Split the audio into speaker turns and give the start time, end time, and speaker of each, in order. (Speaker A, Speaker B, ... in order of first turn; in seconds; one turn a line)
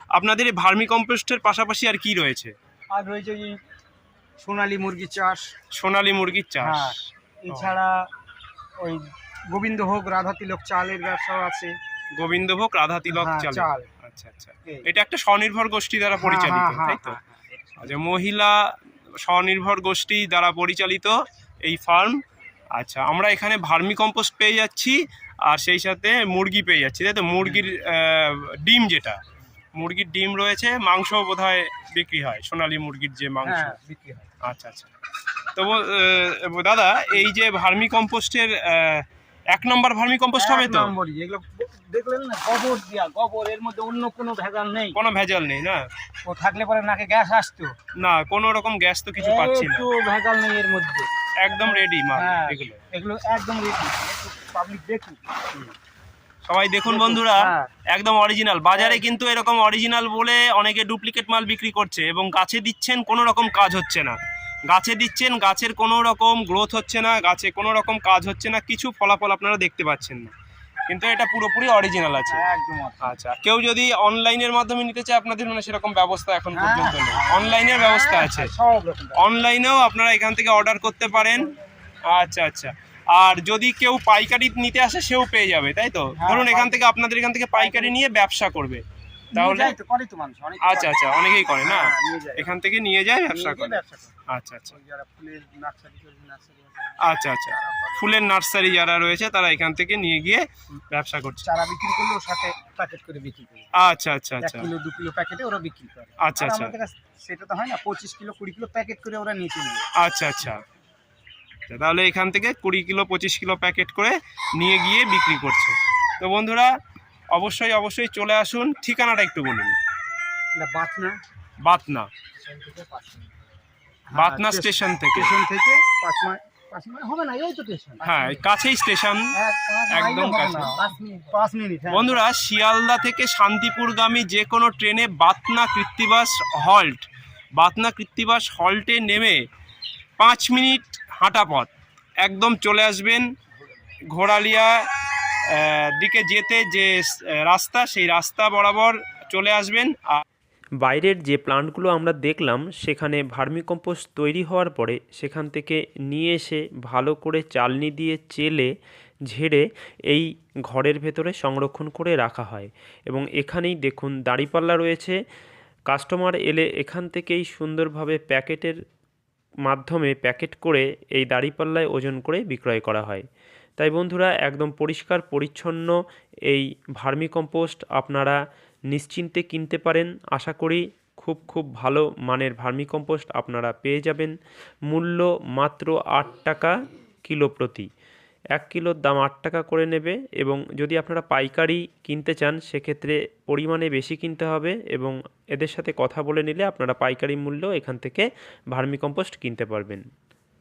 Speaker A: 0.1-2.5
Speaker B: 2.9-3.6
Speaker B: 4.4-5.5
Speaker A: 5.7-7.0
Speaker B: 6.6-8.1
Speaker B: 8.8-11.7
Speaker A: 12.2-17.2
Speaker B: 13.1-13.9
Speaker B: 16.2-17.9
Speaker A: 17.8-18.6
Speaker A: 19.2-22.2
Speaker A: 22.8-29.2
Speaker A: 29.7-33.8
Speaker B: 33.4-34.3
Speaker A: 34.4-34.9
Speaker A: 35.5-40.9
Speaker B: 40.4-45.0
Speaker A: 44.9-45.8
Speaker B: 46.2-47.7
Speaker A: 48.0-49.9
Speaker B: 49.2-55.7
Speaker A: 51.4-52.8
Speaker A: 56.5-64.2
Speaker B: 56.9-57.7
Speaker B: 58.7-59.0
Speaker A: 64.7-70.3
Speaker A: 70.9-72.4
Speaker B: 72.3-73.1
Speaker A: 73.0-78.5
Speaker B: 76.5-79.2
Speaker A: 79.2-81.5
Speaker A: 82.1-88.8
Speaker B: 86.2-86.8
Speaker B: 87.5-88.0
Speaker B: 89.3-92.5
Speaker A: 89.3-89.7
Speaker A: 90.6-94.8
Speaker B: 93.3-94.1
Speaker B: 94.7-98.0
Speaker A: 97.0-101.4
Speaker B: 101.4-103.7
Speaker A: 103.7-104.7
Speaker B: 104.4-109.9
Speaker A: 106.2-106.7
Speaker A: 110.0-110.6
Speaker A: 111.7-116.7
Speaker A: 117.3-119.7
Speaker B: 120.6-121.2
Speaker A: 121.6-122.1
Speaker B: 124.1-128.4
Speaker A: 124.1-125.4
Speaker A: 128.0-129.3
Speaker B: 129.3-132.2
Speaker A: 129.9-130.8
Speaker A: 131.9-139.4
Speaker A: 140.2-141.7
Speaker A: 142.2-143.3
Speaker A: 144.1-144.8
Speaker A: 145.4-150.2
Speaker C: 150.8-158.7
Speaker C: 159.3-165.2
Speaker C: 165.9-168.8
Speaker C: 169.7-173.2
Speaker C: 173.8-175.9
Speaker C: 176.5-178.4
Speaker C: 178.9-184.3
Speaker C: 184.9-186.7
Speaker C: 187.2-187.9
Speaker C: 188.5-200.0